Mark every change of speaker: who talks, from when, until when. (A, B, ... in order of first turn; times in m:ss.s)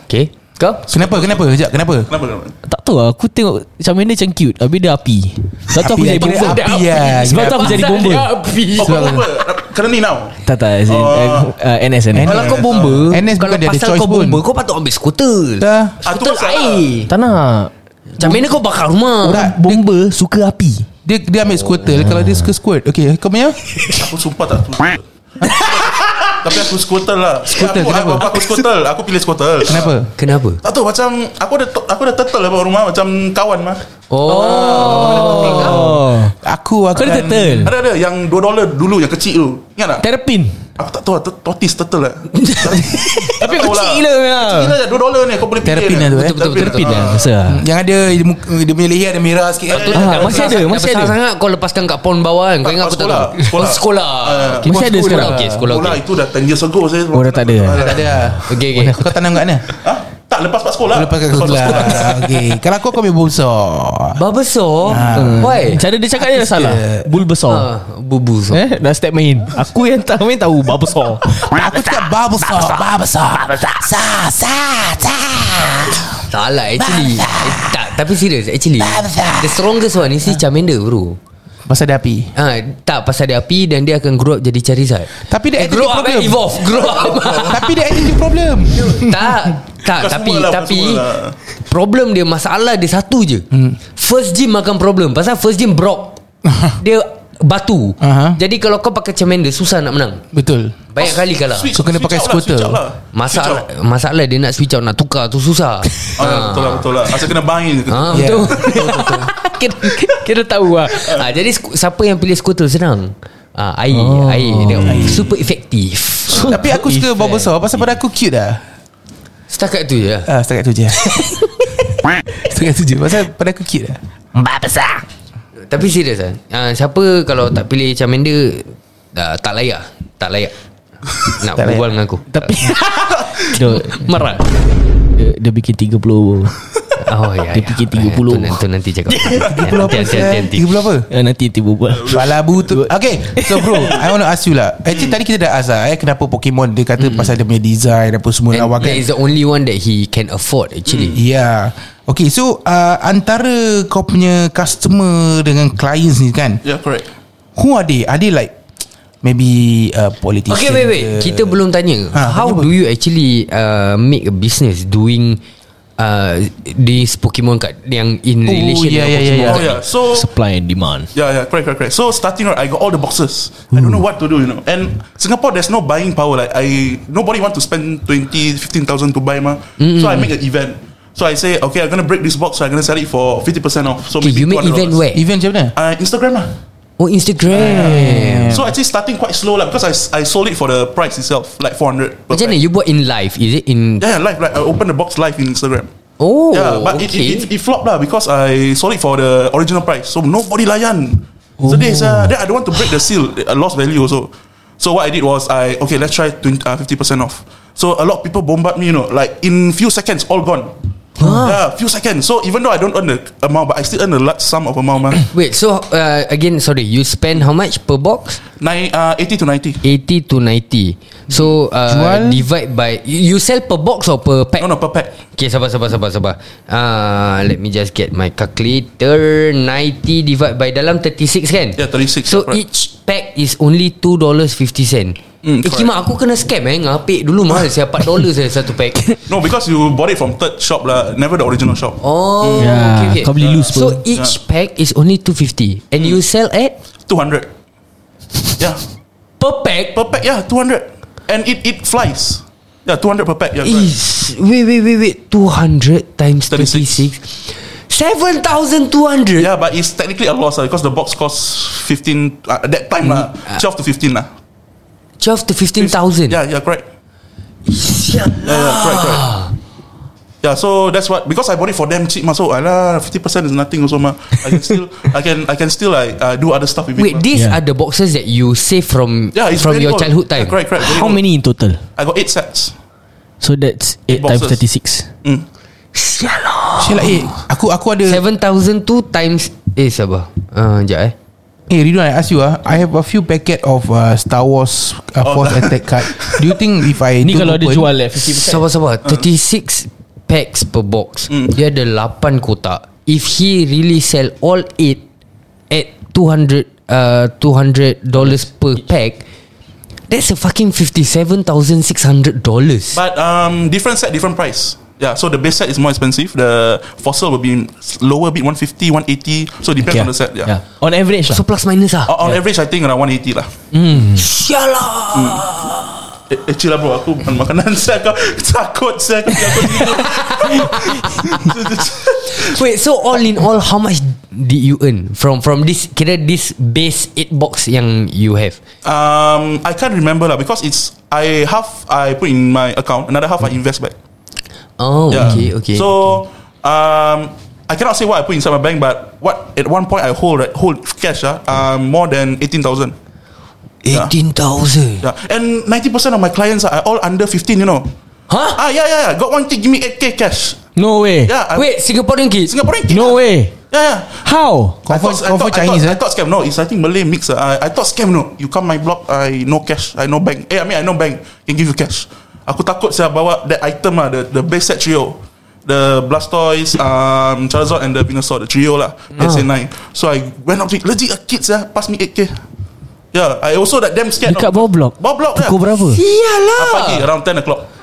0:00.1-0:00.9 A
0:00.9-0:02.6 B
0:00.9-0:02.1 C
0:02.7-0:08.4 D
0:05.7-0:08.1 C
0:06.1-0:09.2 A
0:08.8-0:11.5 B
0:08.8-0:09.3 C
0:10.4-0:12.6 D
0:12.1-0:14.4 C
0:12.2-0:17.1 A
0:12.3-0:13.1 B
0:15.6-0:16.0 C
0:16.0-0:16.9 B
0:17.1-0:18.5 D
0:18.2-0:19.5 A
0:19.2-0:20.9 D
0:19.3-0:19.8 C
0:21.0-0:23.6 C
0:22.0-0:22.5 D
0:23.9-0:25.0 B
0:25.4-0:25.9 C
0:25.7-0:30.0 B
0:27.5-0:28.4 C
0:29.6-0:30.1 C
0:30.2-0:30.6 A
0:30.6-0:33.8 B
0:34.1-0:35.9 A
0:34.3-0:36.4 D
0:34.4-0:36.0 B
0:36.3-0:37.7 C
0:36.9-0:37.7 D
0:37.0-0:40.0 B
0:40.0-0:40.6 D
0:40.8-0:47.4 B
0:42.4-0:44.8 D
0:45.6-0:46.4 C
0:46.1-0:47.2 A
0:46.4-0:47.6 D
0:47.4-0:50.1 C
0:49.7-0:50.6 B
0:49.9-0:56.0 A
0:49.9-0:51.2 D
0:52.6-0:54.8 B
0:54.6-0:55.5 D
0:54.7-0:55.6 C
0:55.5-0:58.1 B
0:57.1-0:58.4 D
0:57.7-0:59.6 C
0:58.5-0:59.0 A
0:59.8-1:02.3 B
1:00.9-1:04.2 C
1:04.1-1:05.8 A
1:04.9-1:05.6 C
1:05.1-1:07.7 D
1:06.2-1:07.2 C
1:07.5-1:08.6 A
1:08.5-1:11.7 D
1:11.5-1:16.2 C
1:16.3-1:21.2 A
1:16.8-1:17.9 C
1:18.8-1:19.7 C
1:21.6-1:22.3 C
1:22.4-1:27.7 A
1:25.2-1:29.2 C
1:26.9-1:27.4 B
1:28.7-1:31.1 A
1:29.9-1:31.4 B
1:31.6-1:36.2 A
1:33.5-1:33.8 C
1:36.4-1:36.8 C
1:36.8-1:40.2 A
1:38.0-1:38.4 C
1:40.3-1:40.8 C
1:40.9-1:41.7 A
1:41.0-1:43.7 B
1:41.7-1:42.8 C
1:43.1-1:46.9 A
1:46.2-1:48.7 B
1:47.9-1:56.6 A
1:48.1-1:49.3 C
1:53.9-1:55.1 D
1:54.8-1:55.3 C
1:56.3-1:57.2 D
1:56.3-1:58.6 C
1:59.5-2:00.3 A
2:00.3-2:01.1 C
2:02.4-2:05.0 C
2:05.7-2:10.5 A
2:11.3-2:12.5 A
2:11.6-2:11.9 C
2:12.3-2:13.0 D
2:13.5-2:14.4 D
2:13.9-2:14.4 A
2:15.2-2:16.6 D
2:17.0-2:20.7 A
2:17.5-2:19.5 D
2:19.4-2:21.1 C
2:21.1-2:23.9 D
2:21.9-2:22.5 B
2:22.0-2:29.1 C
2:27.0-2:27.3 A
2:28.5-2:31.2 A
2:31.1-2:36.6 C
2:36.6-2:37.1 B
2:37.6-2:38.5 C
2:39.2-2:41.6 C
2:40.5-2:45.4 A
2:42.1-2:42.7 C
2:46.0-2:49.8 A
2:48.4-2:49.6 C
2:49.4-2:50.3 B
2:50.1-2:51.1 D
2:51.1-3:05.0 B
2:59.8-3:00.3 A
3:04.2-3:05.2 A
3:05.1-3:05.7 C
3:05.7-3:06.6 B
3:07.0-3:08.6 A
3:07.5-3:12.6 B
3:07.5-3:08.7 C
3:12.3-3:14.0 A
3:14.0-3:15.9 B
3:16.2-3:17.5 A
3:16.5-3:35.2 B
3:31.2-3:31.5 A
3:35.3-3:38.4 A
3:38.6-3:39.8 B
3:39.8-3:44.7 A
3:41.9-3:42.4 C
3:44.6-3:45.1 B
3:45.3-3:59.1 A
3:51.8-3:52.6 B
3:55.4-3:55.9 B
3:59.3-4:02.7 B
4:02.0-4:06.7 A
4:02.6-4:04.0 D
4:03.4-4:04.4 B
4:07.1-4:07.5 B
4:09.4-4:10.0 A
4:09.9-4:13.9 B
4:13.6-4:19.5 A
4:16.5-4:17.1 B
4:19.4-4:24.3 B
4:23.0-4:23.6 A
4:25.2-4:26.4 A
4:25.8-4:26.8 B
4:27.7-4:29.5 A
4:28.4-4:29.3 B
4:30.4-4:37.2 B
4:37.0-4:40.6 A
4:37.3-4:37.6 D
4:39.3-4:41.2 B
4:40.8-4:41.8 D
4:42.0-4:42.7 B
4:43.4-4:45.1 D
4:44.1-4:44.6 B
4:45.9-4:47.2 A
4:46.8-4:48.2 C
4:48.1-4:51.1 A
4:51.7-4:57.9 C
4:55.2-4:56.6 B
4:57.2-4:58.6 D
4:58.2-5:05.0 A
5:05.7-5:09.2 A
5:10.1-5:13.0 A
5:12.9-5:20.5 B
5:19.9-5:21.4 D
5:21.3-5:22.1 A
5:22.1-5:23.5 B
5:23.7-5:24.3 D
5:24.1-5:26.0 A
5:25.1-5:25.4 B
5:26.3-5:32.6 B
5:29.7-5:31.6 A
5:32.2-5:38.6 A
5:38.8-5:43.9 B
5:44.8-5:46.1 A
5:45.1-5:52.9 B
5:55.0-5:57.9 B
5:58.3-5:58.6 A
5:58.6-6:00.6 B
6:00.8-6:01.3 D
6:01.2-6:01.7 B
6:01.5-6:02.5 A
6:02.4-6:03.2 B
6:02.9-6:03.5 D
6:03.7-6:04.2 B
6:04.2-6:04.8 D
6:04.8-6:06.0 C
6:04.9-6:22.4 B
6:19.2-6:19.5 A
6:23.1-6:25.6 B
6:24.2-6:26.0 D
6:25.9-6:27.1 A
6:26.6-6:27.7 B